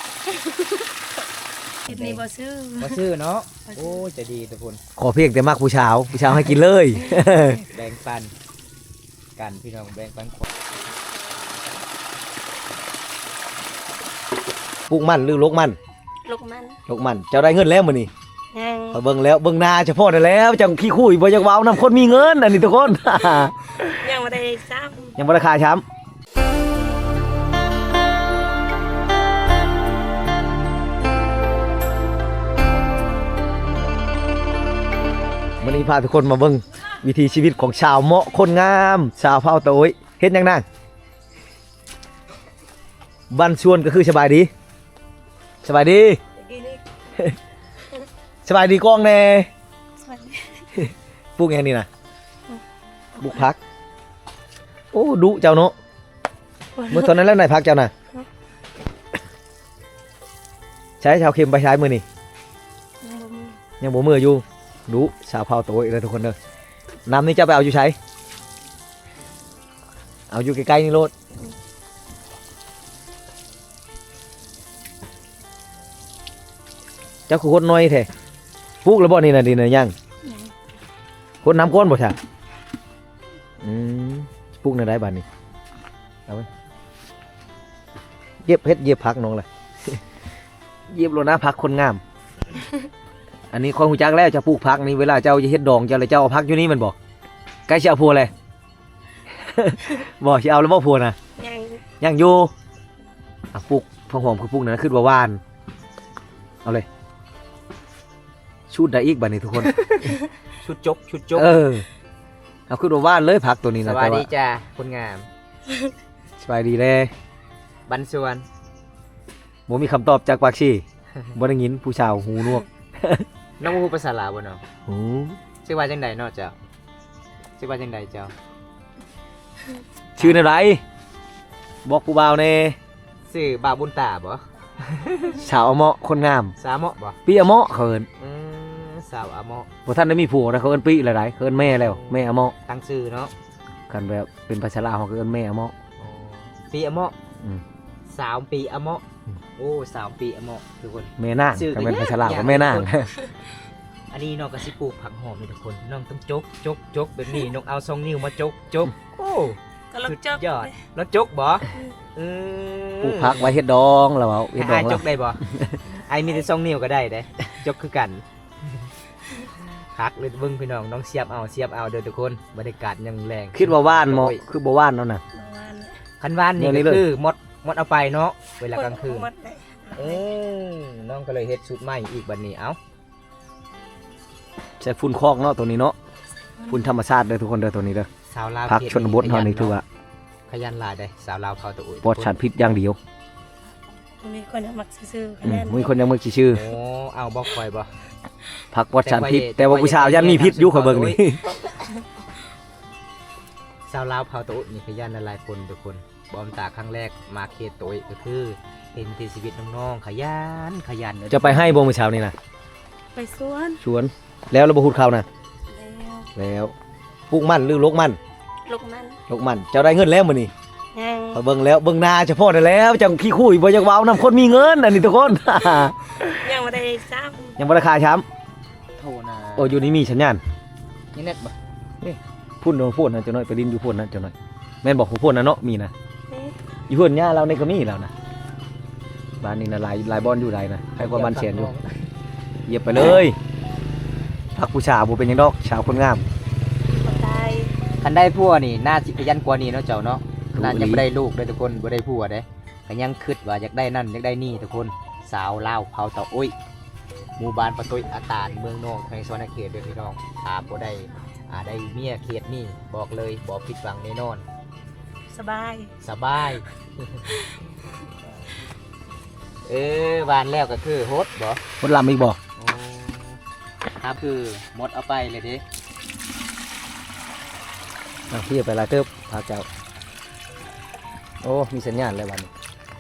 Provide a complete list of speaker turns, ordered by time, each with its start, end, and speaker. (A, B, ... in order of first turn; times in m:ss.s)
0:01.9-0:02.2 A
0:01.9-0:03.0 B
0:02.8-0:04.8 A
0:03.7-0:04.0 B
0:05.0-0:07.6 C
0:07.7-0:08.3 A
0:09.4-0:10.5 A
0:10.5-0:11.8 B
0:14.9-0:15.8 C
0:16.2-0:16.8 B
0:16.9-0:18.1 C
0:18.5-0:19.0 B
0:18.9-0:23.8 C
0:23.8-0:25.2 B
0:25.2-0:25.8 C
0:35.6-0:40.6 C
0:43.3-0:44.5 C
0:45.6-0:46.2 C
0:46.4-0:46.8 B
0:48.4-0:49.5 C
0:50.0-0:50.7 B
0:50.8-0:51.9 C
0:53.2-0:53.4 B
0:53.2-0:53.6 C
0:54.9-0:55.8 C
0:56.8-0:57.1 B
0:56.9-0:57.9 C
1:01.0-1:02.0 C
1:03.0-1:03.6 B
1:03.8-1:06.4 C
1:07.1-1:08.0 C
1:10.3-1:11.1 C
1:17.3-1:18.1 C
1:18.8-1:19.9 C
1:20.2-1:20.5 B
1:21.4-1:22.2 C
1:23.6-1:25.2 C
1:28.4-1:30.0 C
1:30.9-1:32.0 C
1:33.5-1:37.0 C
1:37.7-1:38.3 C
1:39.4-1:41.2 C
1:41.4-1:41.8 B
1:42.0-1:42.5 C
1:43.5-1:45.4 C
1:48.7-1:49.7 C
1:49.8-1:51.6 A
1:51.4-1:51.9 C
1:52.7-1:54.3 C
1:53.8-1:55.3 A
1:56.4-1:57.1 C
1:57.9-1:58.5 A
1:59.7-2:00.8 C
2:01.4-2:03.3 C
2:03.6-2:04.6 A
2:04.9-2:05.4 C
2:05.6-2:06.6 A
2:07.6-2:08.3 A
2:10.2-2:10.8 C
2:10.2-2:10.4 A
2:11.8-2:12.8 C
2:13.3-2:15.4 A
2:15.4-2:16.6 C
2:16.6-2:17.2 A
2:17.3-2:18.1 C
2:18.2-2:19.7 A
2:19.9-2:22.5 C
2:21.6-2:23.3 A
2:23.9-2:25.7 C
2:26.0-2:27.2 A
2:28.1-2:29.0 A
2:29.6-2:32.9 A
2:31.2-2:33.1 C
2:34.1-2:43.6 A
2:39.9-2:40.8 B
2:43.0-2:45.8 C
2:44.6-2:48.2 A
2:49.9-2:54.4 A
2:53.6-2:55.2 C
2:55.3-2:56.0 B
2:56.2-2:59.3 A
2:56.6-2:57.0 C
2:58.7-3:00.2 B
3:00.0-3:02.8 A
3:04.8-3:06.0 C
3:06.7-3:08.1 C
3:08.3-3:09.8 A
3:08.7-3:09.8 C
3:10.5-3:12.3 A
3:12.0-3:13.0 C
3:14.2-3:15.9 B
3:15.4-3:16.6 C
3:16.5-3:17.9 A
3:18.7-3:21.4 C
3:19.0-3:21.2 A
3:23.9-3:31.8 A
3:31.3-3:32.4 C
3:33.2-3:33.8 B
3:33.8-3:35.3 C
3:35.7-3:36.3 B
3:36.4-3:36.7 C
3:37.3-3:38.2 C
3:38.7-3:39.2 B
3:39.3-3:40.5 C
3:41.0-3:41.4 B
3:41.3-3:46.2 C
3:46.2-3:47.6 B
3:47.6-3:48.2 C
3:49.0-3:49.9 A
3:49.6-3:50.4 C
3:51.1-3:51.5 A
3:52.0-3:55.9 C
3:56.3-3:56.6 B
3:56.9-3:58.1 C
3:59.4-4:01.7 C
4:01.0-4:01.9 A
4:02.7-4:03.4 C
4:04.6-4:06.2 C
4:07.0-4:07.8 B
4:08.0-4:16.5 A
4:10.6-4:11.0 C
4:17.4-4:24.4 A
4:25.3-4:25.9 B
4:26.0-4:27.3 A
4:29.7-4:31.6 A
4:31.8-4:32.4 C
4:32.6-4:33.4 A
4:34.0-4:35.6 A
4:38.3-4:39.7 C
4:41.4-4:42.5 C